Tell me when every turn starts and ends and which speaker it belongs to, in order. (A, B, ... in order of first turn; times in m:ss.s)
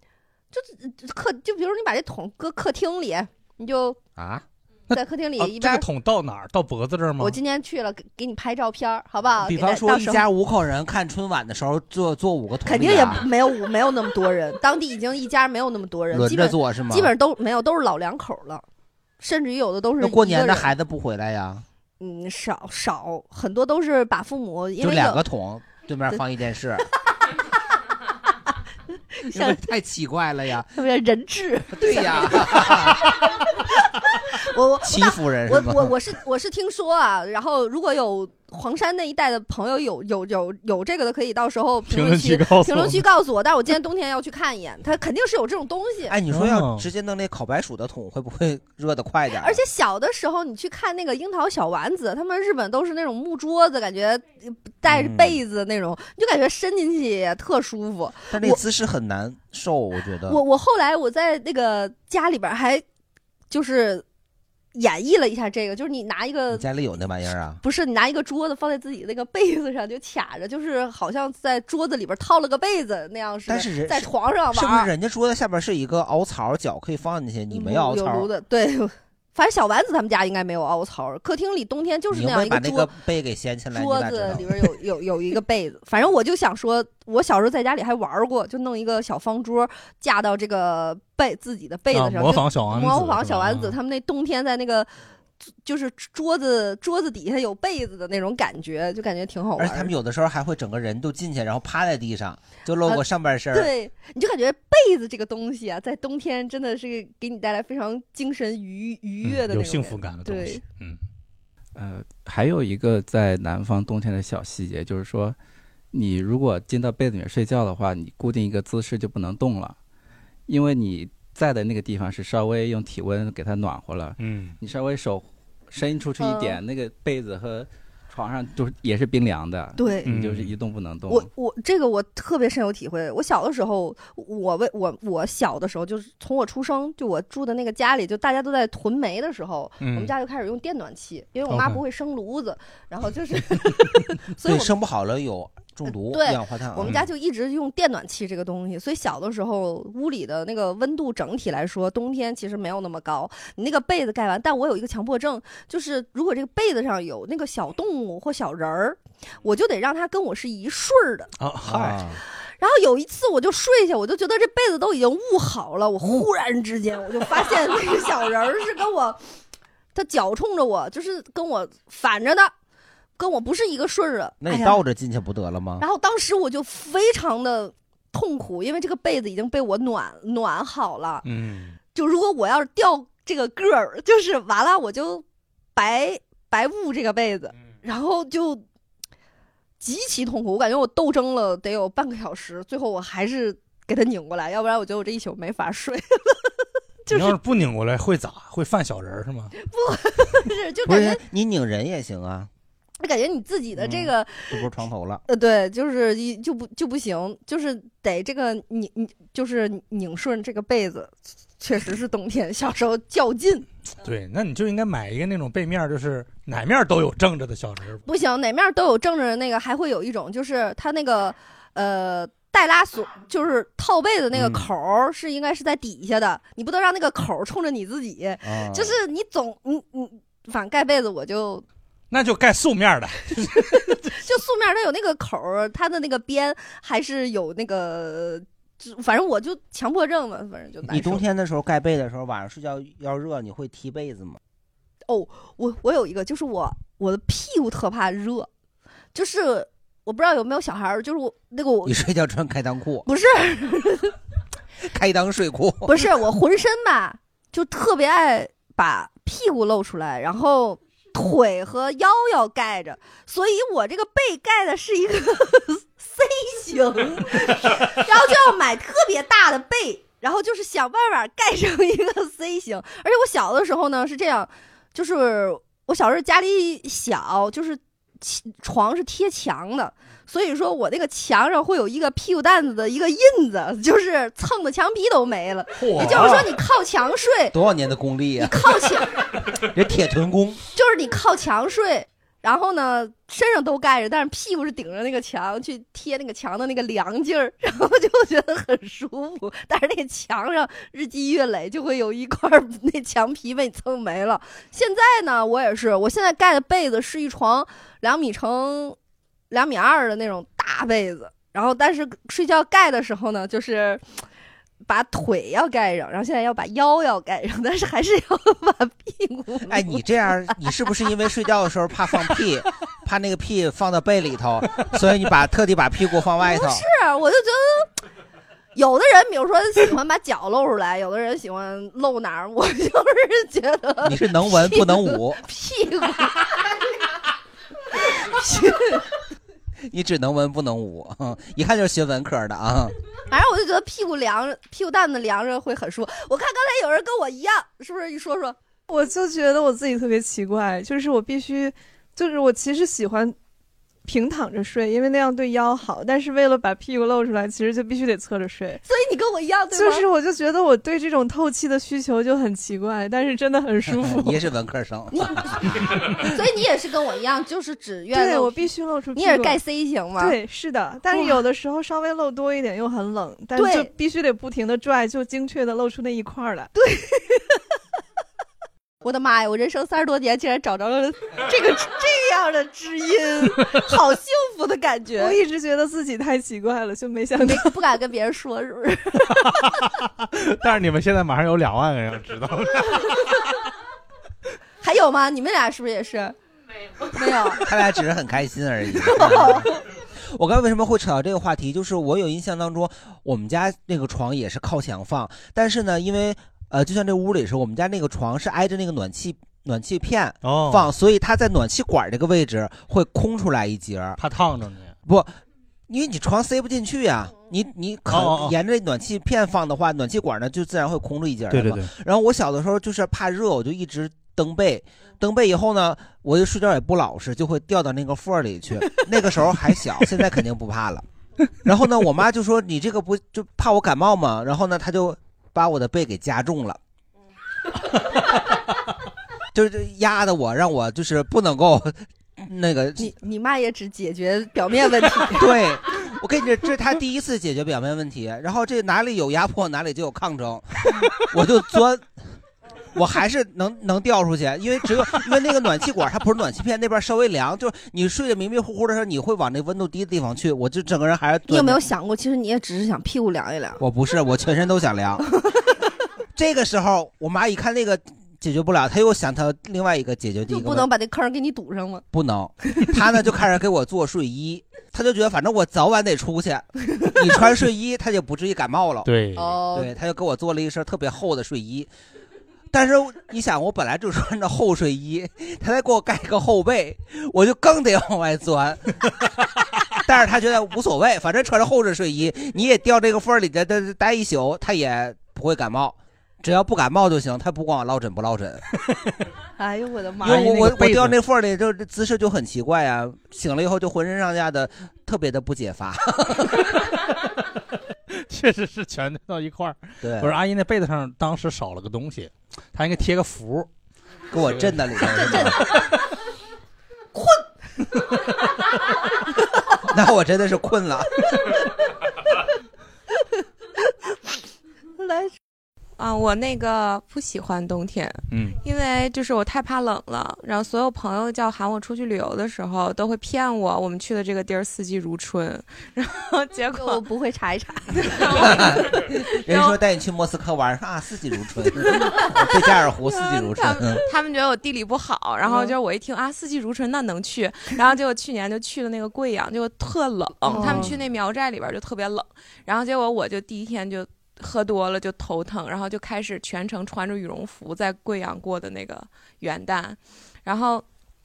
0:00.5-0:04.0 A
0:04.2-0:04.4 B
0:04.9-0:05.9 A
0:04.9-0:07.4 C
0:07.2-0:10.2 A
0:09.4-0:13.3 B
0:12.7-0:18.6 A
0:16.1-0:17.1 B
0:19.2-0:20.7 A
0:20.0-0:21.6 B
0:22.0-0:25.2 A
0:24.8-0:26.9 B
0:29.1-0:29.6 A
0:29.3-0:30.8 B
0:30.7-0:33.0 A
0:31.7-0:33.4 B
0:34.0-0:46.2 A
0:34.8-0:36.0 B
0:41.9-0:43.0 C
0:46.1-0:49.6 B
0:46.3-0:46.9 C
0:49.4-0:58.6 A
0:54.9-0:55.4 B
0:58.3-1:00.4 B
1:00.3-1:02.8 A
1:03.5-1:04.0 A
1:04.8-1:06.6 A
1:06.5-1:07.6 B
1:07.6-1:14.9 A
1:13.5-1:18.3 B
1:17.5-1:22.9 A
1:22.1-1:24.7 B
1:23.7-1:34.9 A
1:31.9-1:33.8 C
1:35.6-1:39.9 A
1:39.6-1:43.7 B
1:42.8-1:50.6 A
1:49.2-1:51.0 C
1:51.8-1:55.4 D
1:55.9-1:59.8 D
2:00.5-2:11.3 D
2:04.2-2:04.6 C
2:06.2-2:06.6 A
2:09.8-2:10.2 A
2:10.0-2:10.5 C
2:11.1-2:24.7 A
2:19.8-2:20.1 C
2:21.5-2:21.8 C
2:24.4-2:27.0 B
2:26.1-2:41.3 A
2:26.8-2:27.1 C
2:41.4-2:42.1 C
2:41.6-2:42.2 B
2:42.5-2:49.2 A
2:49.9-2:52.5 A
2:53.2-2:54.8 A
2:54.4-2:55.8 B
2:55.8-3:01.2 A
3:01.2-3:01.8 C
3:01.9-3:05.2 A
3:05.8-3:08.6 A
3:09.8-3:17.4 A
3:17.1-3:19.5 C
3:19.6-3:21.2 A
3:20.9-3:22.5 B
3:23.0-3:24.7 A
3:23.8-3:25.2 B
3:25.3-3:33.7 A
3:34.0-3:38.0 C
3:38.1-3:51.6 A
3:44.3-3:44.7 B
3:48.4-3:49.0 B
3:52.1-3:54.2 C
3:54.1-4:01.2 A
4:00.9-4:04.4 B
4:05.1-4:08.5 A
4:09.1-4:12.0 A
4:11.8-4:13.1 B
4:13.1-4:14.1 A
4:14.8-4:16.1 B
4:15.9-4:47.6 A
4:45.8-4:46.4 C
4:45.9-4:46.5 B
4:47.5-4:48.8 B
4:48.4-4:49.2 A
4:49.6-4:50.6 B
4:50.7-5:09.0 A
5:09.5-5:14.1 A
5:14.9-5:20.0 A
5:19.7-5:26.9 B
5:26.4-5:27.9 A
5:28.8-5:36.8 A
5:34.0-5:35.4 B
5:37.9-5:39.1 A
5:39.9-5:43.0 B
5:43.3-5:48.6 A
5:48.9-5:53.4 E
5:54.0-5:58.8 E
5:58.8-6:00.0 A
5:59.7-6:04.4 E
6:03.9-6:06.2 B
6:05.1-6:10.4 A
6:08.1-6:09.6 E
6:10.2-6:16.7 E
6:11.1-6:11.4 A
6:13.6-6:13.9 A
6:16.8-6:17.6 A
6:19.0-6:25.4 A
6:25.2-6:27.8 E
6:27.4-6:29.7 A
6:29.5-6:33.4 C
6:34.8-6:36.4 A
6:37.1-6:37.7 A
6:37.6-6:54.2 B
6:39.0-6:39.8 A
6:50.4-6:50.9 C
6:54.2-6:55.0 C
6:55.0-6:55.4 B
6:55.9-7:11.0 B
6:58.1-6:58.6 C
7:01.5-7:01.9 C
7:11.6-7:16.8 B
7:19.5-7:23.1 B
7:23.0-7:25.6 A
7:25.3-7:32.1 B
7:32.9-7:41.9 B
7:41.5-7:43.8 A
7:43.8-7:45.3 B
7:45.3-7:45.6 A
7:46.4-7:50.9 B
7:50.5-7:52.0 A
7:52.1-7:59.1 B
7:59.0-7:59.5 C
7:59.4-7:59.9 A
7:59.7-8:01.9 B
8:02.7-8:09.3 B
8:09.9-8:18.6 B
8:19.6-8:20.8 A
8:20.2-8:21.2 C
8:20.2-8:26.8 B
8:28.1-8:33.7 C
8:30.0-8:30.4 B
8:34.3-8:35.7 B
8:34.5-8:34.8 C
8:35.1-8:35.7 A
8:35.3-8:35.8 C
8:37.2-8:37.4 A
8:39.9-8:41.6 B
8:45.0-8:45.3 A
8:46.0-8:57.0 F
8:48.3-8:48.6 C
8:56.8-8:58.7 A
8:58.0-8:59.8 F
8:58.3-9:04.0 B
9:01.8-9:02.2 F
9:03.0-9:20.8 F
9:05.5-9:05.7 A
9:10.5-9:10.9 A
9:10.6-9:11.0 B